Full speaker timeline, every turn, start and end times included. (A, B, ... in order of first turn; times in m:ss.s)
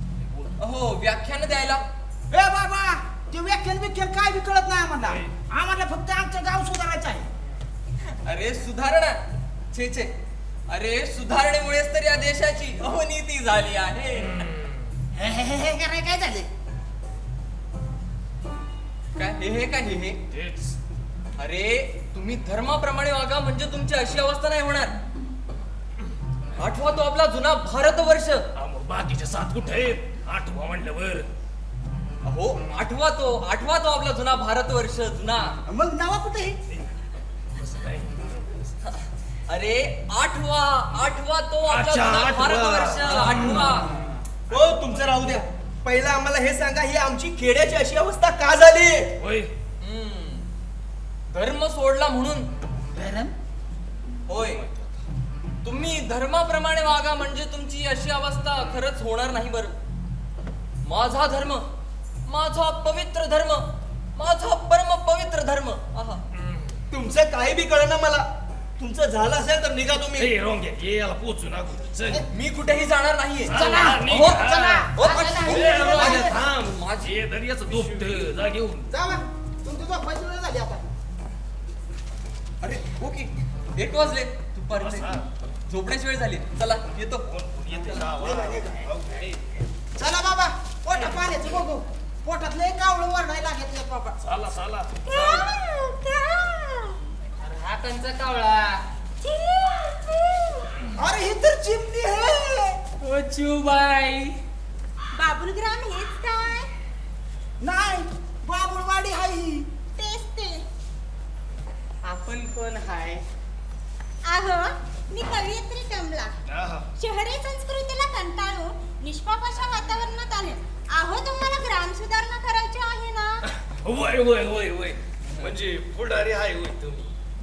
0:00.2-0:00.5 A
0:00.6-0:01.8 B
0:02.3-0:07.3 C
0:05.0-0:05.3 A
0:08.2-0:09.2 B
0:09.7-0:10.1 B
0:10.7-0:14.4 B
0:14.4-0:14.8 A
0:15.1-0:16.5 C
0:19.2-0:20.2 B
0:20.3-0:20.8 A
0:21.4-0:24.9 B
0:26.6-0:28.4 B
0:28.5-0:31.3 A
0:32.2-0:35.6 B
0:35.6-0:36.6 C
0:37.5-0:38.7 A
0:38.8-0:43.9 B
0:41.7-0:43.7 A
0:44.5-0:49.1 D
0:44.5-0:45.3 A
0:49.2-0:49.5 A
0:49.8-0:50.5 B
0:51.3-0:52.5 B
0:52.9-0:53.3 C
0:54.3-0:54.6 B
0:54.4-0:54.9 A
0:55.6-0:59.7 B
1:00.8-1:01.6 B
1:02.3-1:06.2 B
1:06.3-1:06.8 A
1:06.9-1:10.3 D
1:10.2-1:12.2 A
1:12.3-1:14.4 B
1:13.5-1:18.9 A
1:13.5-1:16.4 C
1:14.9-1:17.1 B
1:17.7-1:18.2 B
1:18.9-1:20.8 C
1:22.6-1:27.3 B
1:24.8-1:25.2 A
1:27.3-1:29.4 A
1:28.0-1:28.8 C
1:30.0-1:34.2 C
1:34.2-1:35.3 A
1:35.0-1:37.0 E
1:37.4-1:38.8 F
1:39.2-1:40.7 E
1:41.0-1:42.8 C
1:43.0-1:44.3 F
1:45.1-1:46.7 E
1:47.6-1:49.7 C
1:50.0-1:50.6 E
1:52.0-1:53.2 F
1:54.2-1:56.3 E
1:56.5-1:56.9 A
1:57.0-2:03.4 E
2:03.5-2:07.1 A